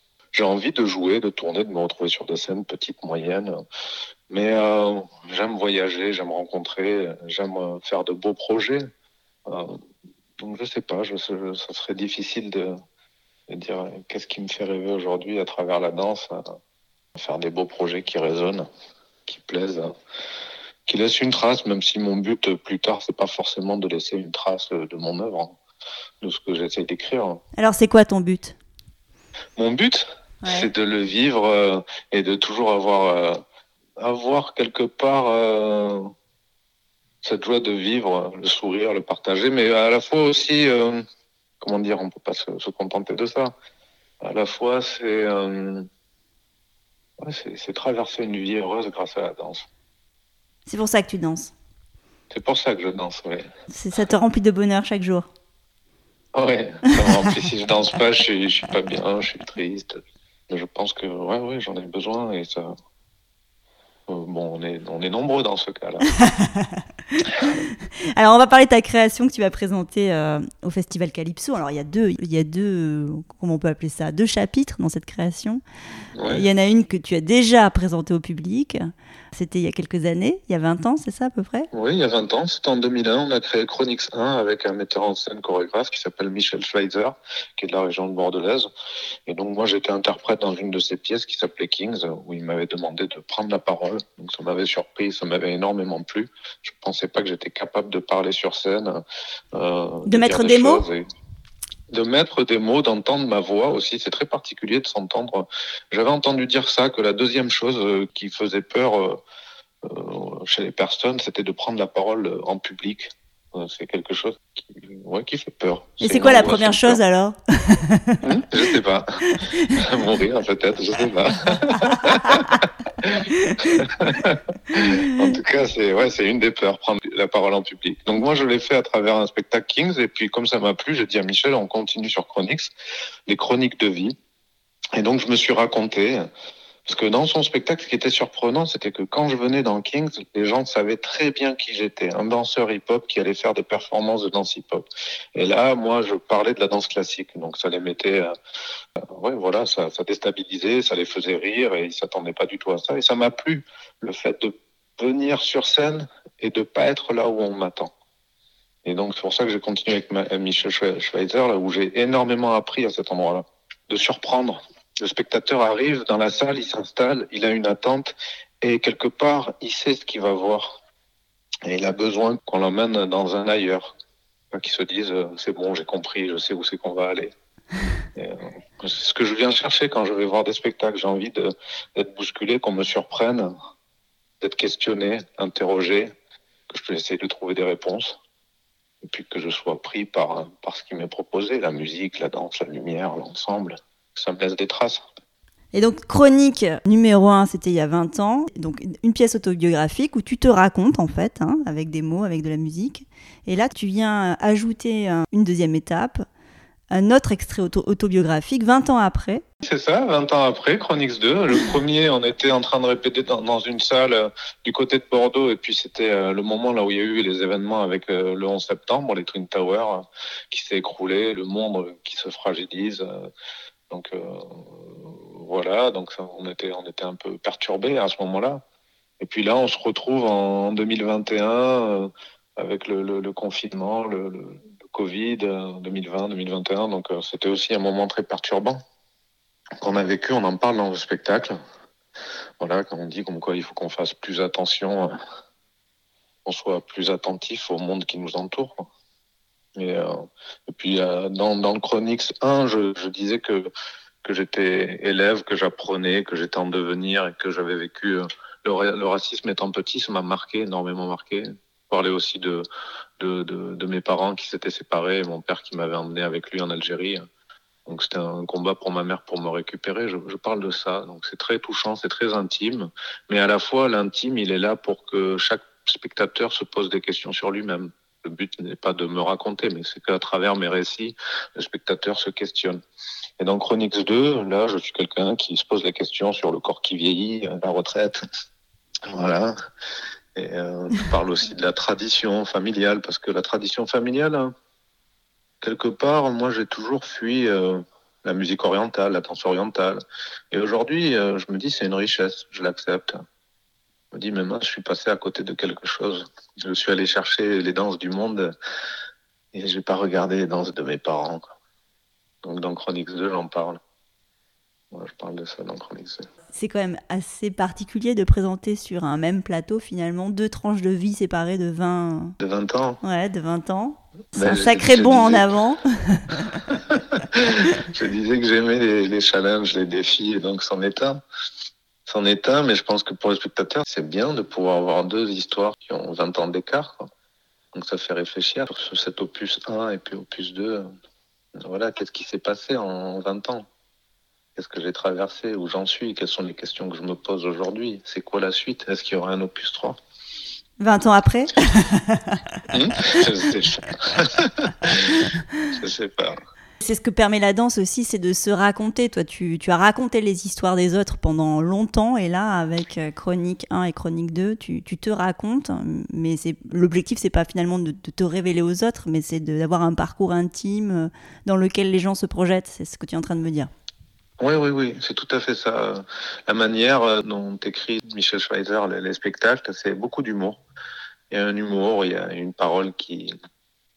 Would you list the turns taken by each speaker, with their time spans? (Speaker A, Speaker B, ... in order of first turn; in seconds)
Speaker A: 0.3-3.5, 4.3-8.9, 9.5-9.8, 10.4-12.8, 13.5-16.6, 17.1-18.7, 19.3-19.9, 20.9-25.6, 26.2-27.4, 29.6-33.4, 34.0-36.1, 37.2-41.0, 41.6-43.5, 44.2-45.9, 47.2-49.7, 52.3-53.5, 56.3-62.7, 64.1-66.1, 76.2-76.5, 81.7-88.7, 89.3-99.0, 99.5-101.1, 101.9-109.2, 109.8-117.0, 118.2-132.7, 133.3-134.2, 135.0-136.3, 136.8-148.3, 149.1-157.9, 158.8-170.8, 171.7-173.9, 174.5-177.3, 178.2-183.5, 184.4-186.1, 186.7-188.2, 189.0-195.1, 209.6-223.3, 223.9-228.6, 229.2-238.8, 239.8-241.6, 242.6-245.1, 246.4-248.8, 249.8-253.7, 254.2-262.6, 263.2-267.2, 267.9-282.8, 283.4-288.2, 289.1-289.5, 290.4-294.5, 295.6-300.0, 300.5-303.2, 304.1-308.5, 309.5-311.5, 312.4-313.8, 314.9-316.2, 322.4-323.0, 324.4-325.5, 326.7-331.2, 332.1-337.1, 337.7-340.9, 341.6-343.7, 344.6-350.0, 352.7-356.4, 374.4-380.6, 381.3-383.3
Speaker B: 27.6-28.6, 30.4-30.7, 50.7-51.5, 53.7-55.3, 66.2-67.2, 68.2-75.6, 76.2-78.8, 79.3-81.7, 100.1-100.8, 116.0-118.2, 119.2-119.8, 121.9-122.6, 123.4-123.7, 195.7-206.2, 206.9-209.4, 316.5-322.4, 323.0-326.6, 350.8-353.2, 356.8-373.7